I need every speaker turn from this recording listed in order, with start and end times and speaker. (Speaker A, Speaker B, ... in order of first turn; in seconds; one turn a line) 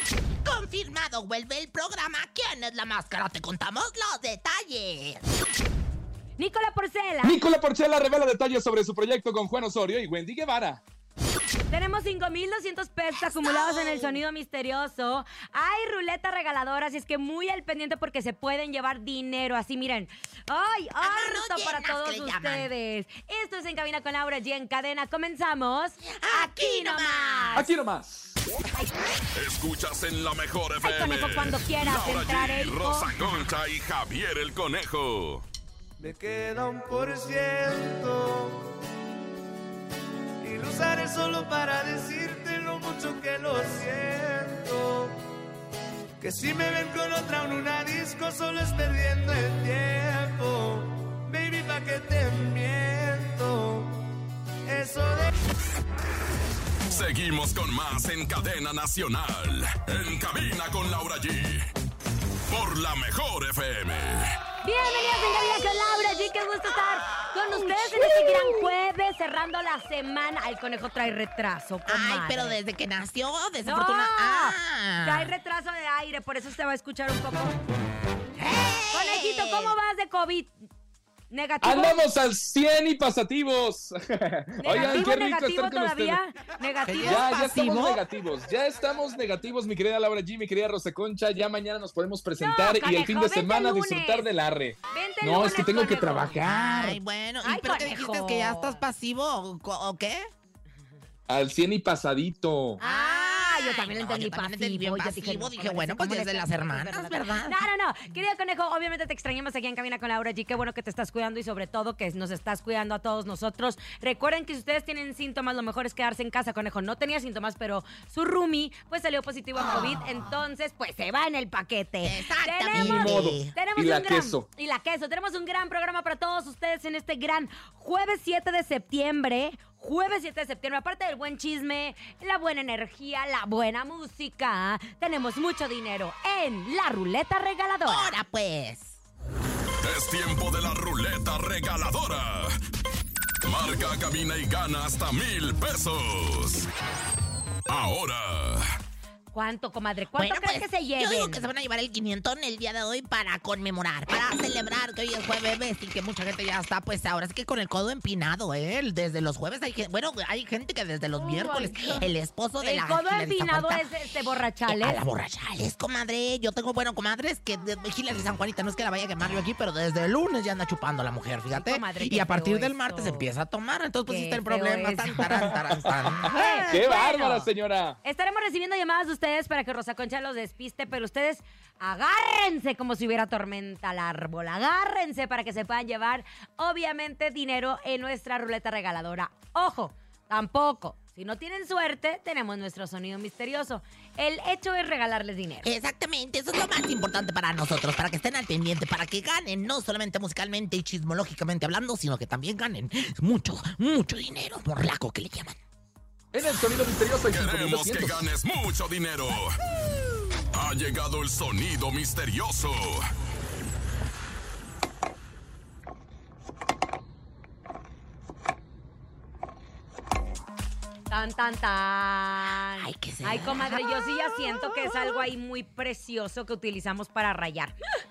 Speaker A: 0.4-5.3
Speaker B: 6.4-7.4
Speaker C: 7.2-10.8
Speaker B: 11.7-27.7
Speaker A: 13.2-14.2
Speaker A: 21.0-22.7
Speaker A: 26.0-27.7
Speaker C: 27.5-28.3
Speaker D: 29.3-35.5
Speaker B: 30.8-33.1
Speaker E: 36.0-38.8
Speaker E: 40.4-45.1
Speaker E: 46.2-54.0
Speaker E: 54.7-55.3
Speaker D: 56.9-61.7
Speaker D: 62.5-64.4
Speaker B: 64.6-72.6
Speaker A: 67.1-68.7
Speaker A: 71.9-75.3
Speaker B: 73.6-77.5
Speaker A: 78.4-79.8
Speaker B: 78.9-80.5
Speaker B: 81.3-82.1
Speaker C: 81.6-86.2
Speaker B: 84.6-87.2
Speaker A: 86.8-88.0
Speaker C: 87.0-97.0
Speaker B: 92.4-94.3
Speaker B: 94.9-96.4
Speaker A: 96.4-100.2
Speaker B: 97.4-98.8
Speaker C: 101.3-102.8
Speaker B: 102.8-138.1
Speaker A: 102.8-107.7
Speaker A: 122.0-123.5
Speaker C: 122.8-124.5
Speaker A: 137.9-139.0
Speaker D: 139.8-142.6
Speaker D: 143.4-146.7
Speaker D: 147.7-148.7
Speaker B: 149.3-151.5
Speaker A: 150.2-163.9
Speaker B: 161.3-162.0
Speaker B: 162.6-165.0
Speaker A: 164.7-176.7
Speaker B: 171.5-173.3
Speaker B: 174.1-175.3
Speaker C: 175.3-175.9
Speaker B: 176.3-177.5
Speaker C: 176.7-178.0
Speaker B: 178.0-195.7
Speaker A: 195.6-205.6
Speaker C: 206.3-208.3
Speaker D: 207.3-209.6
Speaker D: 210.5-213.1
Speaker B: 221.1-227.8
Speaker A: 222.8-225.2